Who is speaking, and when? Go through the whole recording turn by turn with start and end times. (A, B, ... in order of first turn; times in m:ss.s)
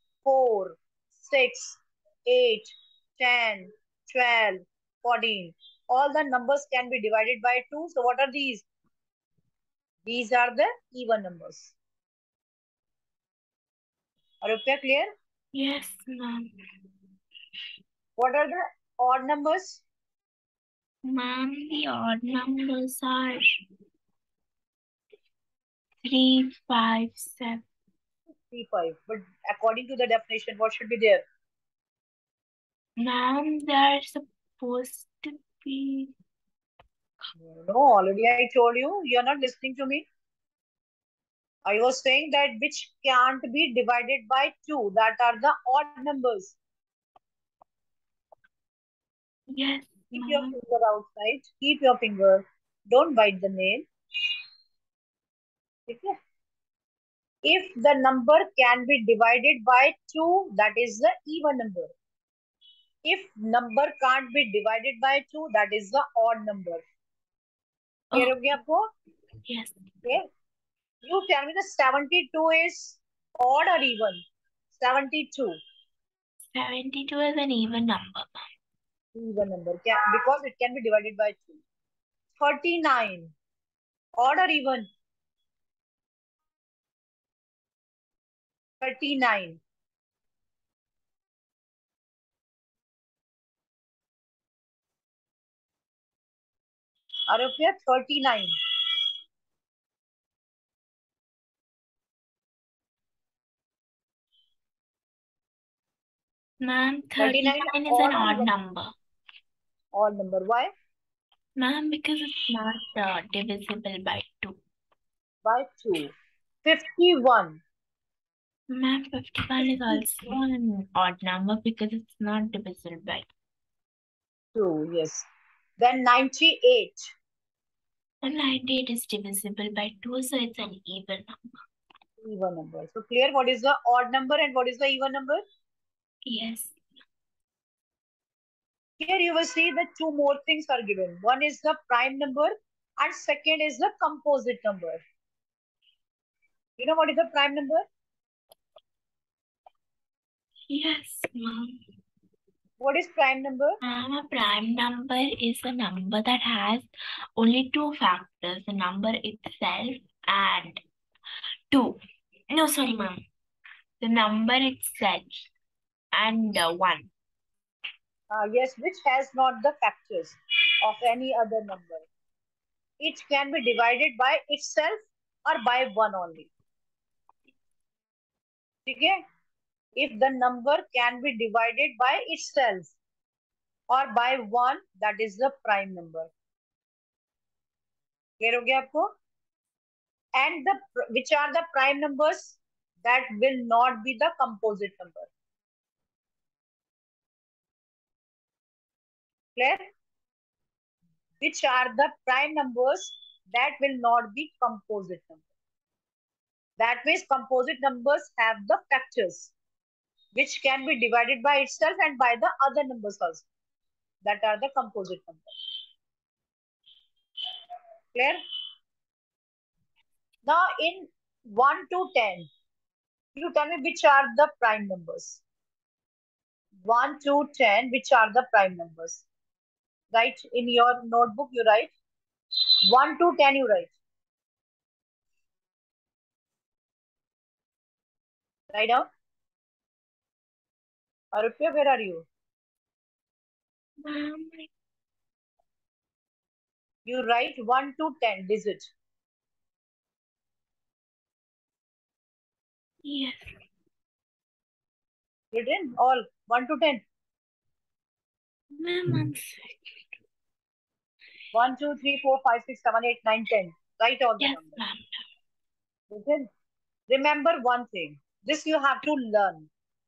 0:00.2-0:08.6 A
0:10.0-0:11.7 A
0:14.4-0:15.1 A
0:15.5-0:16.5 B
0:18.2-0:19.8 A
0:21.1-0:23.6 B
0:26.0-0:27.6 B
0:28.5-0:31.2 A
0:33.0-0:36.1 B
0:37.4-0:40.0 A
0:41.6-0:46.6 A
0:49.5-0:50.5 B
0:50.1-0:53.8 A
0:55.9-0:56.1 A
0:57.4-1:01.9 A
1:03.0-1:06.8 A
1:08.1-1:08.8 A
1:09.4-1:09.7 B
1:11.0-1:14.2 A
1:14.7-1:15.5 A
1:16.4-1:18.4 B
1:19.1-1:21.6 A
1:22.4-1:23.3 A
1:24.2-1:24.9 A
1:28.8-1:29.6 A
1:37.3-1:38.5 A
1:46.6-1:48.9 B
1:47.2-1:48.5 A
1:49.9-1:50.7 A
1:51.6-1:54.6 B
1:55.4-1:57.6 A
1:58.7-2:03.3 B
1:59.7-2:00.0 A
2:04.5-2:05.2 A
2:05.8-2:07.1 A
2:08.2-2:11.6 B
2:12.2-2:15.4 A
2:16.2-2:16.7 B
2:19.0-2:25.0 A
2:26.8-2:27.8 A
2:30.7-2:31.8 B
2:32.8-2:33.8 A
2:33.8-2:40.8 B
2:41.7-2:42.0 B
2:42.5-2:43.2 B
2:44.0-2:45.3 B
2:46.1-2:47.1 B
2:48.3-2:52.1 A
2:53.0-2:56.5 A
2:58.8-2:59.2 A
3:00.0-3:03.0 A
3:03.9-3:06.3 A
3:08.4-3:09.1 A
3:10.4-3:15.3 A
3:19.6-3:19.8 A
3:21.4-3:25.4 A
3:26.8-3:29.5 A
3:30.3-3:33.4 A
3:34.2-3:35.5 A
3:38.1-3:38.4 A
3:40.4-3:42.5 A
3:43.4-3:45.4 A
3:46.8-3:49.2 A
3:50.1-3:51.9 A
3:52.9-3:53.9 A
3:58.7-3:59.0 A
4:01.3-4:02.2 A
4:04.0-4:04.7 B
4:07.0-4:08.9 A
4:13.0-4:13.5 B
4:15.5-4:17.0 A
4:18.8-4:20.1 B
4:21.5-4:24.8 A
4:24.4-4:25.2 B
4:26.1-4:26.5 A
4:27.1-4:29.7 A